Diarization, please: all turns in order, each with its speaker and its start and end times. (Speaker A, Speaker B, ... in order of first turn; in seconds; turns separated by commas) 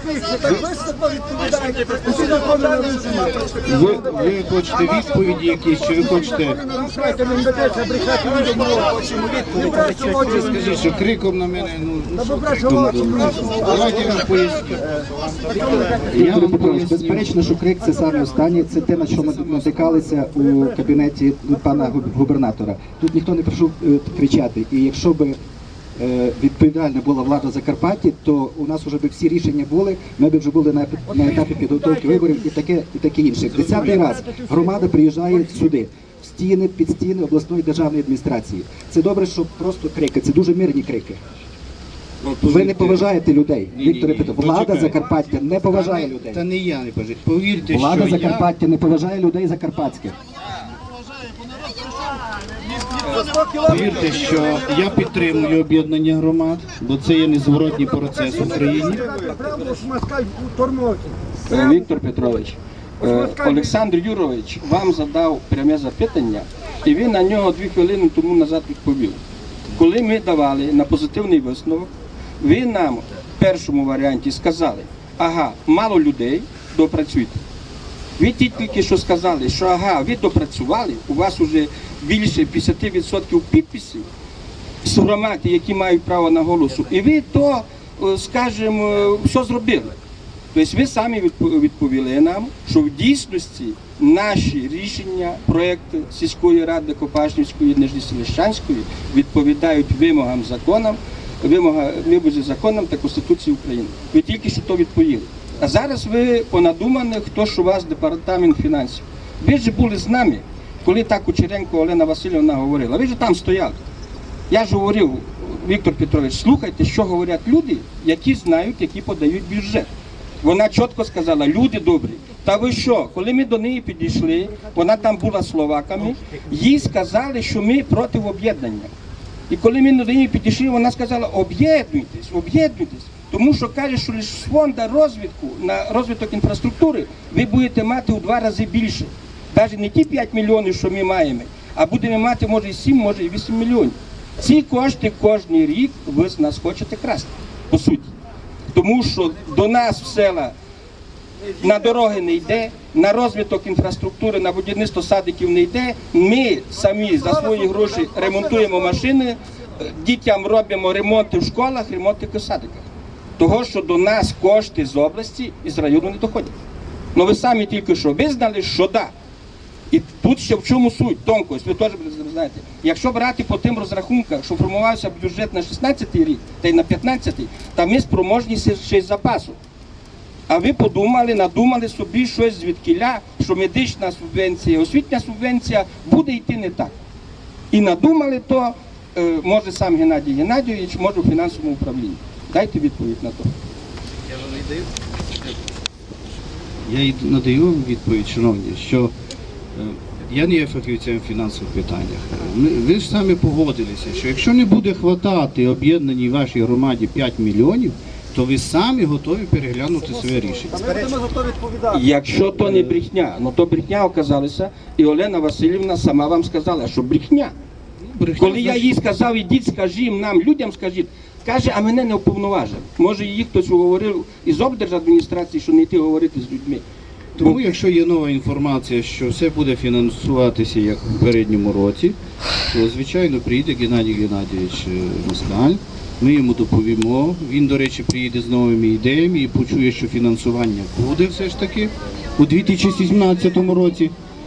Speaker A: 3.6-6.7, Speaker B: 9.5-10.0, Speaker A: 10.0-14.8, Speaker A: 16.1-17.3, Speaker B: 16.1-25.4, Speaker B: 26.0-41.2, Speaker A: 42.2-43.0, Speaker B: 42.4-46.4, Speaker A: 43.7-45.0, Speaker A: 45.7-48.5, Speaker B: 47.7-50.1, Speaker A: 53.6-59.1, Speaker C: 59.3-59.8, Speaker C: 61.5-69.2, Speaker C: 69.7-71.9, Speaker C: 72.4-77.4, Speaker C: 78.2-84.0, Speaker C: 84.8-89.9, Speaker C: 90.5-113.8, Speaker C: 114.5-119.9, Speaker C: 120.4-128.9, Speaker C: 129.5-148.1, Speaker C: 148.7-150.5, Speaker C: 151.6-162.8, Speaker C: 163.4-166.5, Speaker C: 167.1-169.1, Speaker C: 169.9-179.6, Speaker C: 180.5-186.9, Speaker C: 187.7-193.5, Speaker A: 194.3-194.8, Speaker A: 196.8-199.1, Speaker A: 199.7-211.1, Speaker C: 211.9-217.5, Speaker A: 218.1-218.9, Speaker C: 218.4-226.8, Speaker A: 227.3-232.2, Speaker C: 227.4-227.8, Speaker A: 232.7-244.1